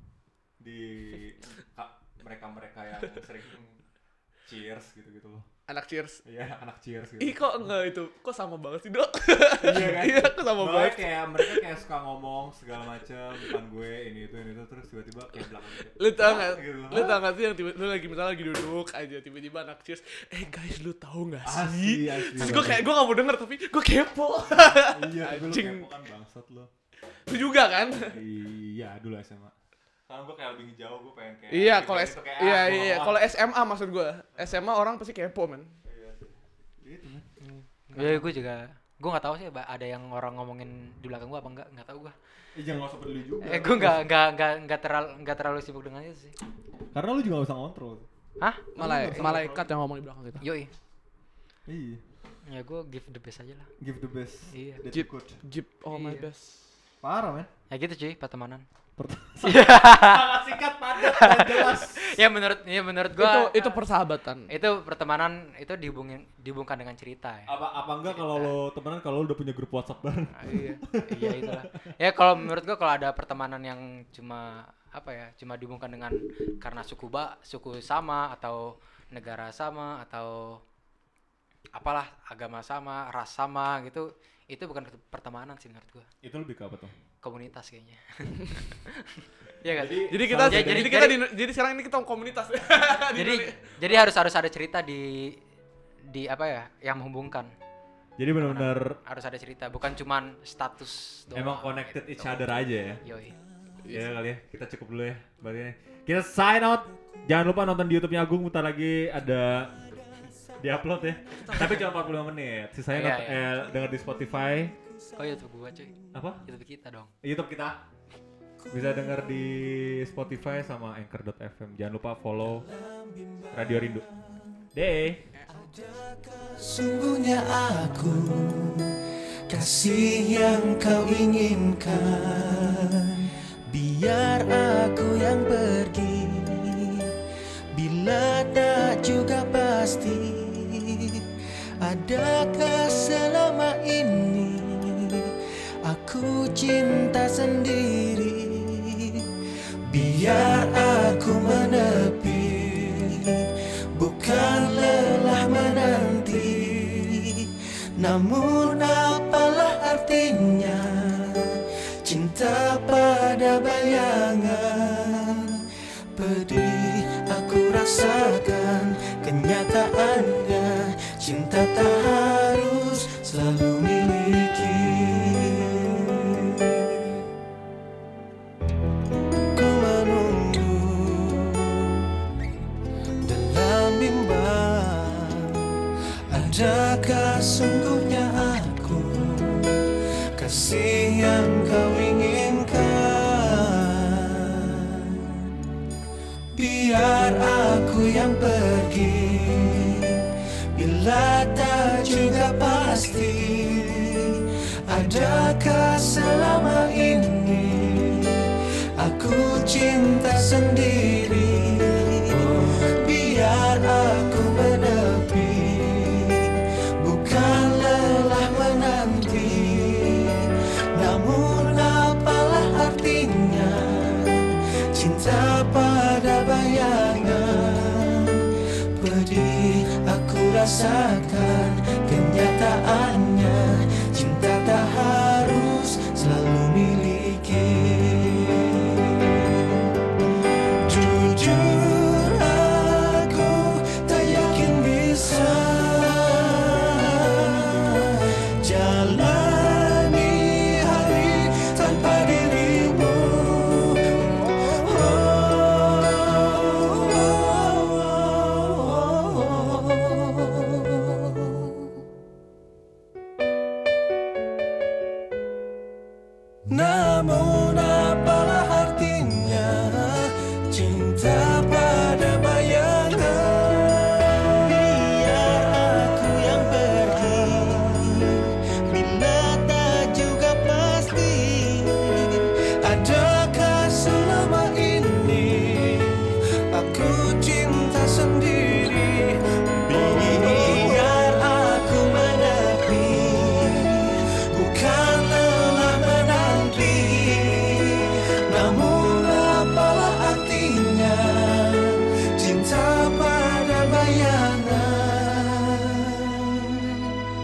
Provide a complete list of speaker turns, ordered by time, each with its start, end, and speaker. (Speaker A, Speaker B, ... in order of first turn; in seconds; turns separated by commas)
Speaker A: 0.6-3.8, Speaker A: 4.5-5.5, Speaker B: 5.7-6.2, Speaker A: 6.2-7.4, Speaker B: 7.2-11.6, Speaker A: 9.6-17.2, Speaker B: 15.9-25.9, Speaker A: 21.4-22.9, Speaker A: 24.6-26.7, Speaker B: 27.3-28.1, Speaker A: 28.0-29.5, Speaker A: 30.1-33.3, Speaker B: 31.5-35.7, Speaker A: 35.8-37.3, Speaker C: 37.4-42.1, Speaker A: 38.0-38.2, Speaker A: 42.5-44.1, Speaker C: 43.4-46.3, Speaker A: 46.9-48.1, Speaker C: 48.4-49.4, Speaker A: 48.8-49.7, Speaker B: 48.8-50.4, Speaker C: 50.4-50.7, Speaker A: 51.7-52.0, Speaker C: 52.5-53.7, Speaker A: 53.8-55.4, Speaker C: 54.5-54.8, Speaker B: 54.9-56.7, Speaker C: 55.9-56.3, Speaker A: 57.0-57.5, Speaker C: 57.7-58.6, Speaker A: 59.0-62.2, Speaker C: 59.4-60.3, Speaker C: 61.0-63.8, Speaker B: 63.1-64.5, Speaker C: 64.5-67.5, Speaker A: 67.5-71.9, Speaker C: 68.0-68.5, Speaker C: 70.4-80.6, Speaker C: 81.7-86.1, Speaker A: 86.2-86.9, Speaker C: 87.2-91.2, Speaker A: 89.7-91.0, Speaker B: 90.1-94.0, Speaker C: 93.1-95.4, Speaker C: 96.1-97.5, Speaker A: 98.2-99.0, Speaker C: 98.3-103.4, Speaker A: 101.3-103.0, Speaker B: 103.8-104.1, Speaker A: 103.9-109.8, Speaker A: 110.6-114.7, Speaker B: 111.4-111.9, Speaker C: 112.9-113.5, Speaker C: 115.2-117.1, Speaker A: 116.1-116.4, Speaker A: 117.2-117.8, Speaker A: 118.7-122.7, Speaker D: 122.6-124.2, Speaker A: 123.5-124.1, Speaker A: 124.7-125.3, Speaker D: 125.5-128.9, Speaker D: 129.5-137.1, Speaker D: 137.7-141.2, Speaker D: 141.8-145.2, Speaker D: 145.8-149.2, Speaker D: 149.9-153.4, Speaker D: 154.0-157.5, Speaker D: 158.0-165.6, Speaker D: 166.2-177.1, Speaker D: 179.5-181.9, Speaker D: 183.2-185.6, Speaker D: 186.3-189.8, Speaker D: 190.4-195.5, Speaker D: 196.6-208.4, Speaker D: 209.0-220.4, Speaker D: 220.9-239.8, Speaker D: 240.8-261.8, Speaker D: 266.7-307.0, Speaker A: 289.9-291.0